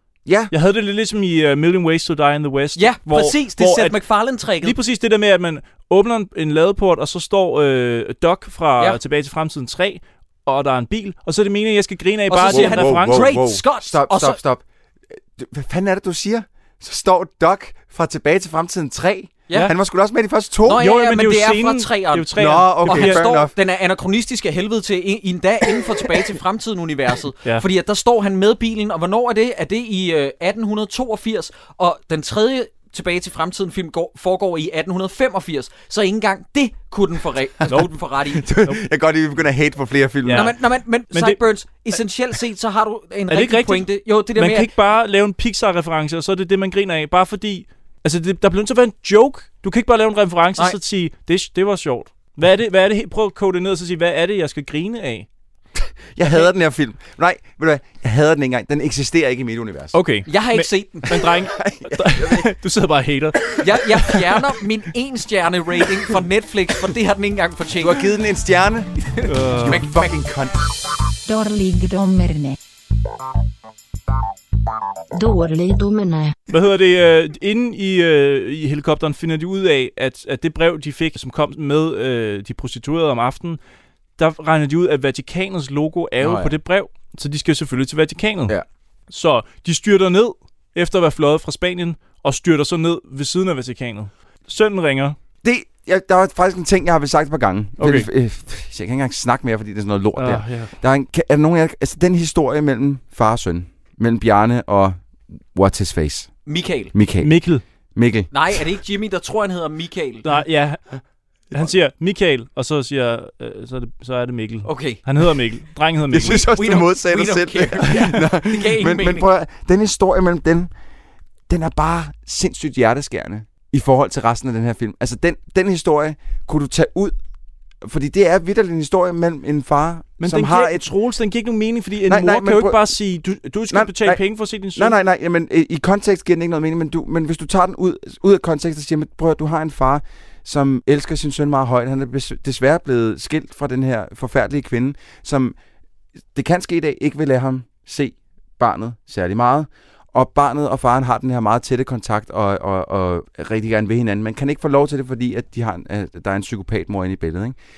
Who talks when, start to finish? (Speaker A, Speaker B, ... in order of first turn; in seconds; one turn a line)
Speaker A: 0.2-0.5
Speaker B: 0.5-4.0
Speaker C: 2.8-4.8
Speaker B: 4.6-13.5
Speaker C: 12.3-14.4
Speaker A: 12.5-20.8
Speaker C: 20.6-38.4
Speaker B: 20.7-23.3
Speaker A: 22.4-23.5
Speaker A: 38.3-40.5
Speaker B: 40.2-40.6
Speaker C: 40.3-44.7
Speaker B: 41.1-41.4
Speaker B: 43.3-55.3
Speaker A: 56.1-60.0
Speaker B: 59.9-64.3
Speaker C: 60.3-61.2
Speaker A: 61.2-62.5
Speaker C: 63.6-68.0
Speaker A: 67.8-70.7
Speaker C: 69.1-70.1
Speaker B: 69.2-69.8
Speaker D: 71.2-72.6
Speaker D: 75.1-76.3
Speaker B: 76.5-83.6
Speaker B: 84.2-88.5
Speaker A: 86.2-86.5
Speaker B: 89.1-95.2
Speaker A: 95.4-105.0
Speaker B: 97.8-98.1
Speaker B: 100.2-100.7
Speaker A: 105.5-106.3
Speaker C: 106.5-106.9
Speaker A: 106.9-107.3
Speaker B: 107.2-107.6
Speaker A: 108.0-108.6
Speaker C: 108.3-110.2
Speaker B: 110.2-110.8
Speaker B: 111.5-116.5
Speaker C: 114.6-115.0
Speaker A: 116.1-120.7
Speaker C: 116.2-119.3
Speaker A: 121.5-127.2
Speaker A: 127.8-130.8
Speaker B: 130.2-134.9
Speaker A: 132.1-132.8
Speaker A: 133.7-134.2
Speaker A: 134.7-145.6
Speaker A: 146.3-157.6